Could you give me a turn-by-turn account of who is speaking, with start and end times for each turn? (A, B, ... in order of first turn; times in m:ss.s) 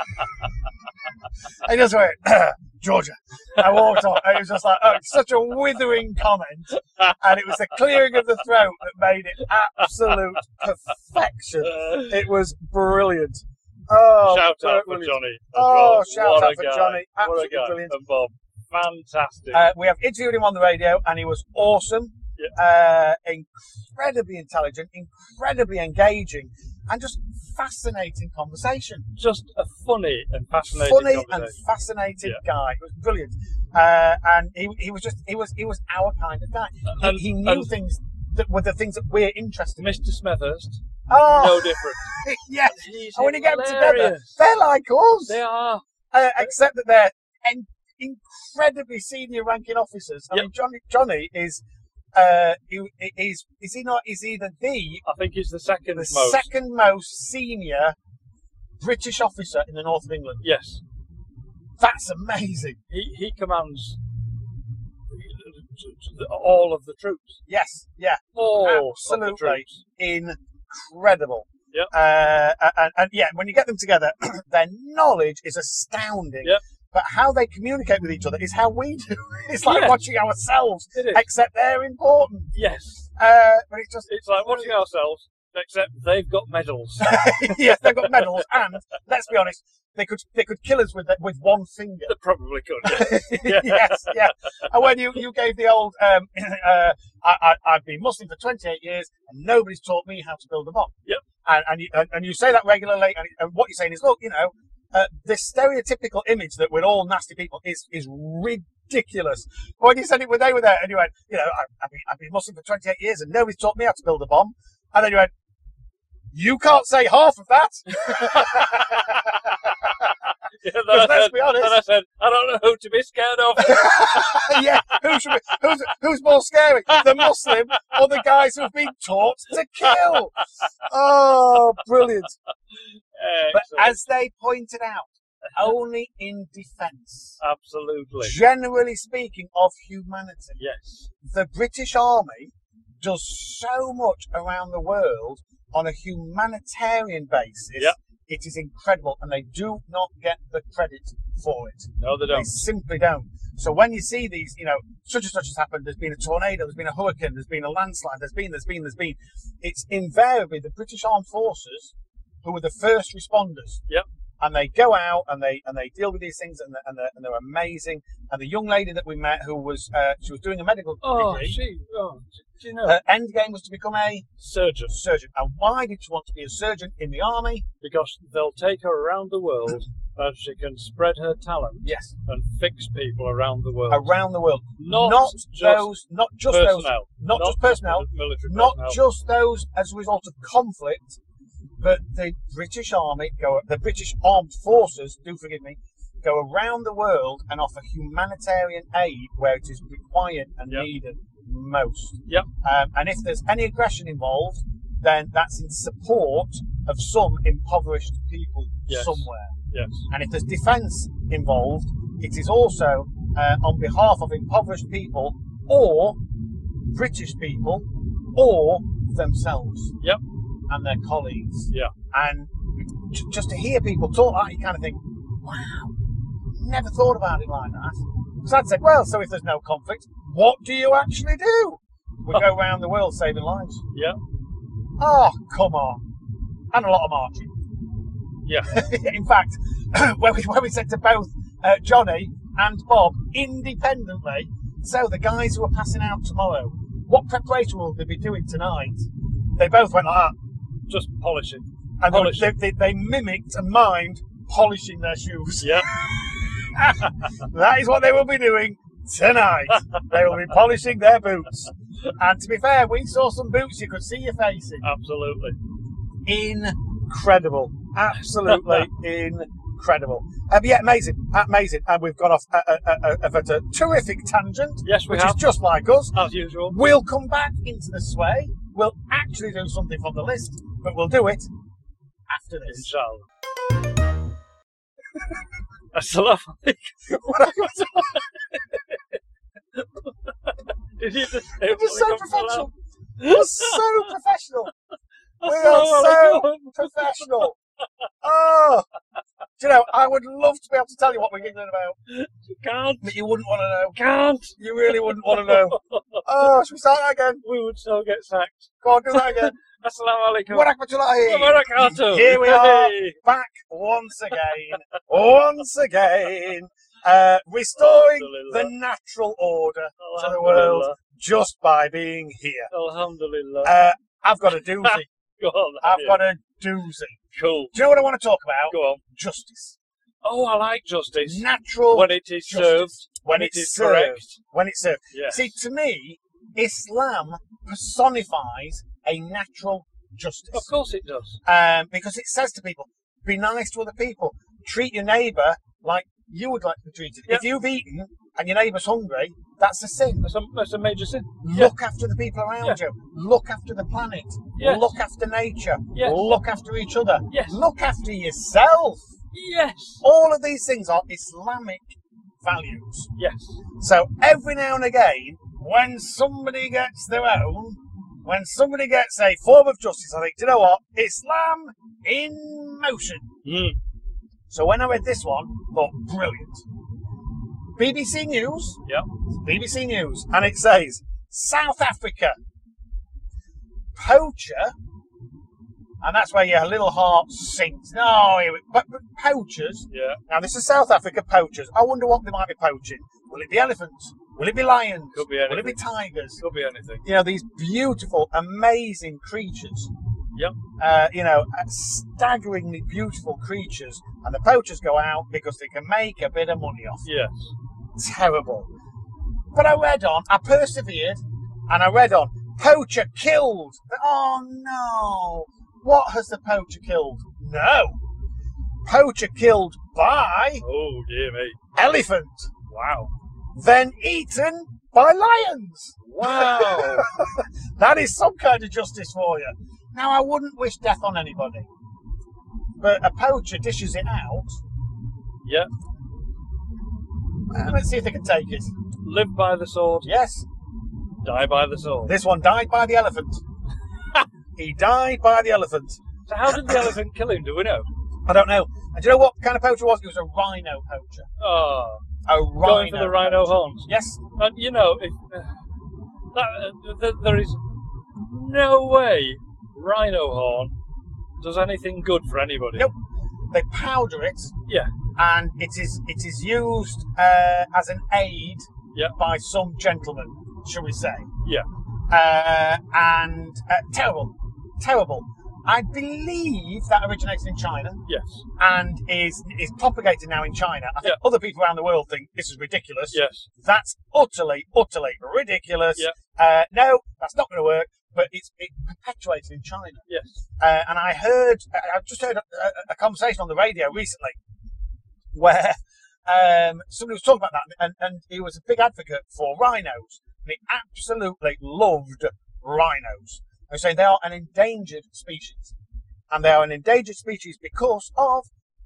0:01.6-0:18.0 A
0:11.6-0:12.1 B
0:14.2-0:19.7 B
0:19.5-0:29.1 A
0:29.2-0:31.6 B
0:30.7-0:40.0 A
0:36.9-0:37.7 B
0:39.8-0:42.2 B
0:41.1-0:45.4 A
0:42.7-0:44.4 B
0:45.3-0:45.8 B
0:46.1-0:51.6 A
0:52.2-0:55.0 A
0:55.0-0:56.5 B
0:56.0-0:58.0 A
0:58.8-1:00.4 A
1:00.4-1:00.8 B
1:01.8-1:02.8 A
1:02.9-1:04.0 B
1:05.1-1:07.4 B
1:07.5-1:22.5 A
1:08.4-1:09.8 B
1:19.6-1:20.0 B
1:21.0-1:21.3 B
1:22.5-1:23.1 B
1:23.2-1:24.8 A
1:24.1-1:28.4 B
1:27.0-1:32.1 A
1:32.1-1:34.3 B
1:32.8-1:40.9 A
1:41.4-1:55.3 A
1:56.3-2:00.1 A
1:58.0-1:58.8 B
2:00.6-2:05.0 B
2:00.9-2:01.8 A
2:03.6-2:10.3 A
2:06.9-2:07.9 B
2:09.8-2:10.2 B
2:10.9-2:12.3 A
2:13.2-2:14.1 B
2:13.5-2:17.4 A
2:17.4-2:18.4 B
2:18.2-2:20.6 A
2:20.6-2:21.1 B
2:21.2-2:41.9 A
2:32.0-2:32.6 B
2:42.4-2:43.8 A
2:44.4-2:51.6 A
2:51.0-2:53.0 B
2:52.8-2:54.3 A
2:54.4-2:55.0 B
2:54.9-2:57.6 A
2:57.8-3:04.1 B
3:01.8-3:02.1 A
3:03.9-3:11.2 A
3:04.8-3:05.9 B
3:06.5-3:09.0 B
3:11.8-3:29.5 A
3:28.9-3:30.1 B
3:30.1-3:36.2 A
3:36.9-3:39.9 A
3:40.7-3:46.0 A
3:46.5-3:53.8 A
3:55.0-3:56.0 A
3:56.7-3:57.5 A
3:58.5-3:58.8 B
3:58.7-4:09.1 A
4:09.6-4:10.4 A
4:10.9-4:12.5 B
4:12.0-4:24.8 A
4:15.6-4:15.9 B
4:19.8-4:20.0 B
4:24.8-4:25.6 B
4:26.3-4:41.5 A
4:28.4-4:28.9 B
4:34.8-4:35.5 B
4:36.1-4:36.8 B
4:42.3-4:42.9 A
4:42.7-4:43.3 B
4:45.9-4:49.0 B
4:47.1-4:48.3 A
4:49.8-4:52.7 B
4:51.6-4:54.7 A
4:53.2-4:54.0 B
4:55.4-4:57.5 B
4:55.4-4:57.6 A
4:58.2-4:58.9 A
4:59.6-5:02.0 A
5:02.1-5:03.2 B
5:03.0-5:04.0 A
5:03.9-5:06.5 B
5:04.6-5:07.4 A
5:07.4-5:13.2 B
5:08.8-5:09.5 A
5:10.5-5:22.7 A
5:17.8-5:18.7 B
5:20.0-5:21.0 B
5:22.7-5:23.8 B
5:23.6-5:25.1 A
5:24.8-5:26.2 B
5:25.8-5:27.2 A
5:27.3-5:27.8 B
5:27.7-5:29.8 A
5:28.7-5:29.0 B
5:30.2-5:34.4 B
5:31.2-5:40.7 A
5:35.1-5:35.5 B
5:40.5-5:41.4 B
5:41.4-5:50.3 A
5:50.2-5:51.7 B
5:51.4-5:59.1 A
5:54.6-5:55.0 B
5:55.9-5:56.4 B
5:57.3-5:57.6 B
5:59.3-6:00.0 B
6:00.0-6:03.1 A
6:03.2-6:03.6 B
6:03.8-6:13.3 A
6:13.4-6:13.8 B
6:14.5-6:16.6 A
6:17.8-6:18.8 A
6:19.4-6:22.4 A
6:24.0-6:24.8 A
6:26.0-6:36.4 A
6:29.9-6:30.2 B
6:35.1-6:35.8 B
6:36.4-6:37.0 B
6:37.0-6:39.9 A
6:40.8-6:47.1 A
6:47.0-6:47.5 B
6:48.0-6:48.7 A
6:49.5-6:58.0 A
6:58.8-7:00.6 A
7:00.6-7:01.6 B
7:01.8-7:02.5 A
7:02.7-7:03.1 B
7:03.6-7:11.7 A
7:06.1-7:07.1 B
7:12.8-7:14.6 A
7:15.4-7:15.7 B
7:17.5-7:18.7 A
7:19.0-7:20.1 B
7:20.0-7:20.5 A
7:21.2-7:22.2 B
7:22.1-7:23.4 A
7:24.6-7:26.9 A
7:26.3-7:27.9 B
7:28.3-7:31.3 A
7:31.4-7:32.0 B
7:32.3-7:34.2 A
7:32.6-7:35.6 B
7:36.3-7:37.6 B
7:38.2-7:40.7 B
7:41.4-7:42.9 B
7:43.5-7:44.5 A
7:44.7-7:44.9 B
7:45.2-7:48.7 A
7:49.2-7:51.3 A
7:52.1-7:58.0 A
7:58.1-7:58.5 B
7:58.6-8:10.1 A
8:03.1-8:03.5 B
8:10.1-8:10.4 B
8:10.6-8:14.4 A
8:15.3-8:25.7 A
8:26.3-8:28.5 A